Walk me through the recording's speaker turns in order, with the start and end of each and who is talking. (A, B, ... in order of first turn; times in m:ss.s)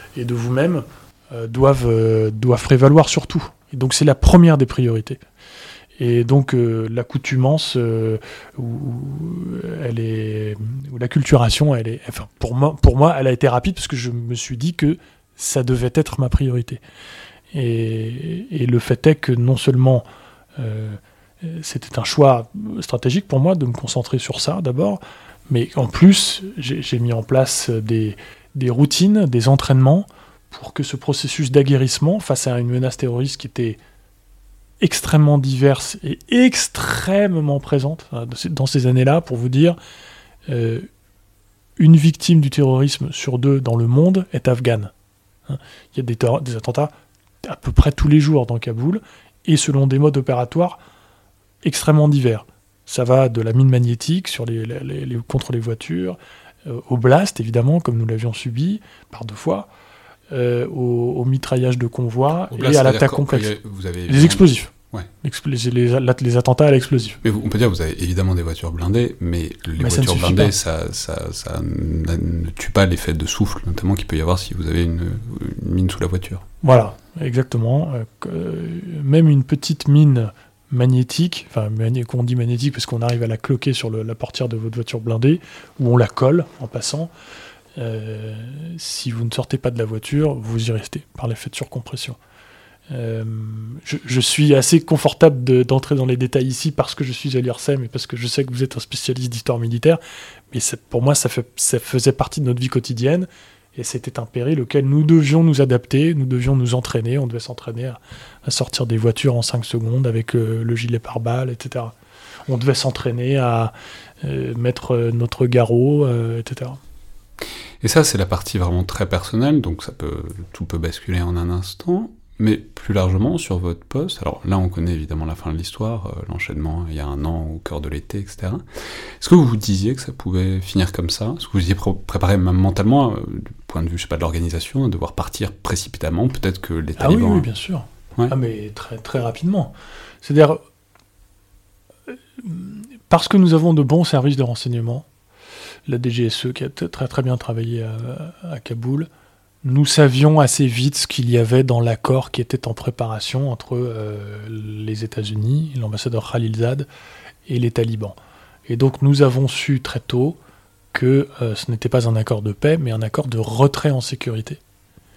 0:00.2-0:05.2 A
0:06.0-0:16.8 A
0:17.5-0:20.0 A
0:20.6-0:33.8 A
0:34.8-0:39.8 A
0:40.5-0:40.9 A
0:41.8-0:44.9 A
0:45.5-0:46.9 A
0:47.4-0:50.8 A
0:51.6-0:59.7 A
1:00.3-1:03.6 A
1:02.5-1:05.1 B
1:04.1-1:04.7 A
1:05.2-1:07.2 A
1:07.2-1:16.4 B
1:09.8-1:10.5 A
1:16.6-1:27.1 A
1:27.8-1:32.2 A
1:32.9-1:40.0 A
1:40.5-1:51.9 A
1:52.5-1:56.8 A
1:57.8-2:17.5 B
2:17.0-2:20.6 A
2:22.1-2:25.0 A
2:25.9-2:29.1 A
2:29.6-2:36.9 A
2:37.5-2:38.2 A
2:38.7-2:40.4 A
2:40.9-2:44.6 A